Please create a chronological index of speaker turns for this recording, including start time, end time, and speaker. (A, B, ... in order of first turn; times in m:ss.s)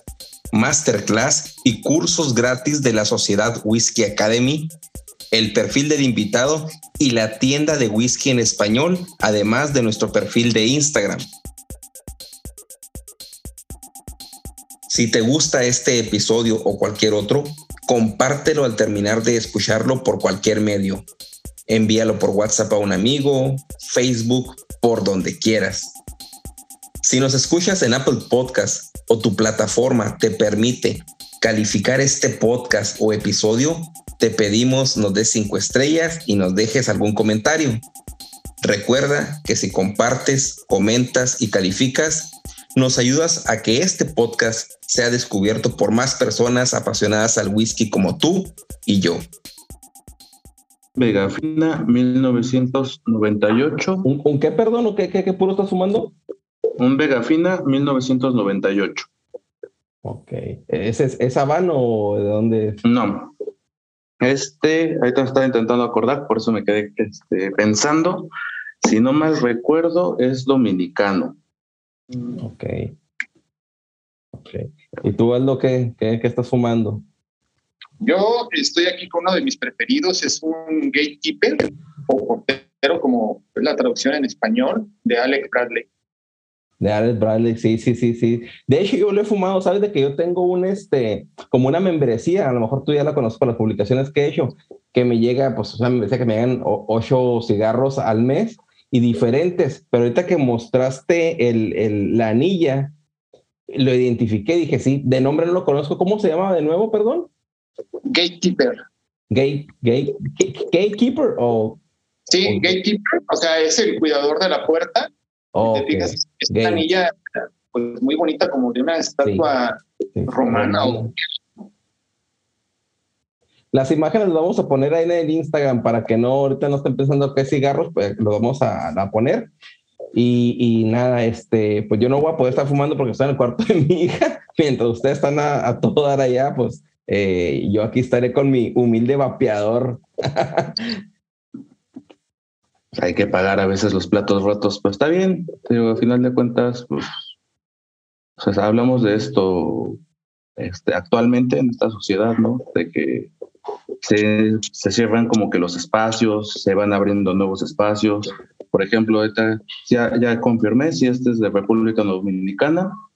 0:00.5-0:04.7 A
0:05.3-0:11.2 A
0:14.9-0:21.1 A
0:21.7-0:26.0 A
0:27.0-0:37.8 A
0:38.6-0:49.2 A
0:51.0-0:54.1 B
0:54.0-0:56.1 A
0:56.8-0:59.1 B
1:00.0-1:02.8 A
1:02.8-1:03.3 B
1:04.2-1:08.3 B
1:08.8-1:11.4 B
1:12.4-1:12.9 A
1:14.4-1:17.0 A
1:18.0-1:25.9 C
1:26.8-1:42.9 A
1:43.7-1:47.3 A
1:48.1-1:48.8 C
1:49.3-1:51.8 A
1:52.3-1:55.1 C
1:52.4-1:52.7 A
1:55.5-1:56.8 A
1:55.6-2:01.1 C
2:00.2-2:01.1 A
2:03.7-2:09.5 A
2:10.1-2:21.0 A
2:22.9-2:27.3 B
2:28.4-2:30.0 B
2:30.6-2:33.3 B
2:34.0-2:43.0 B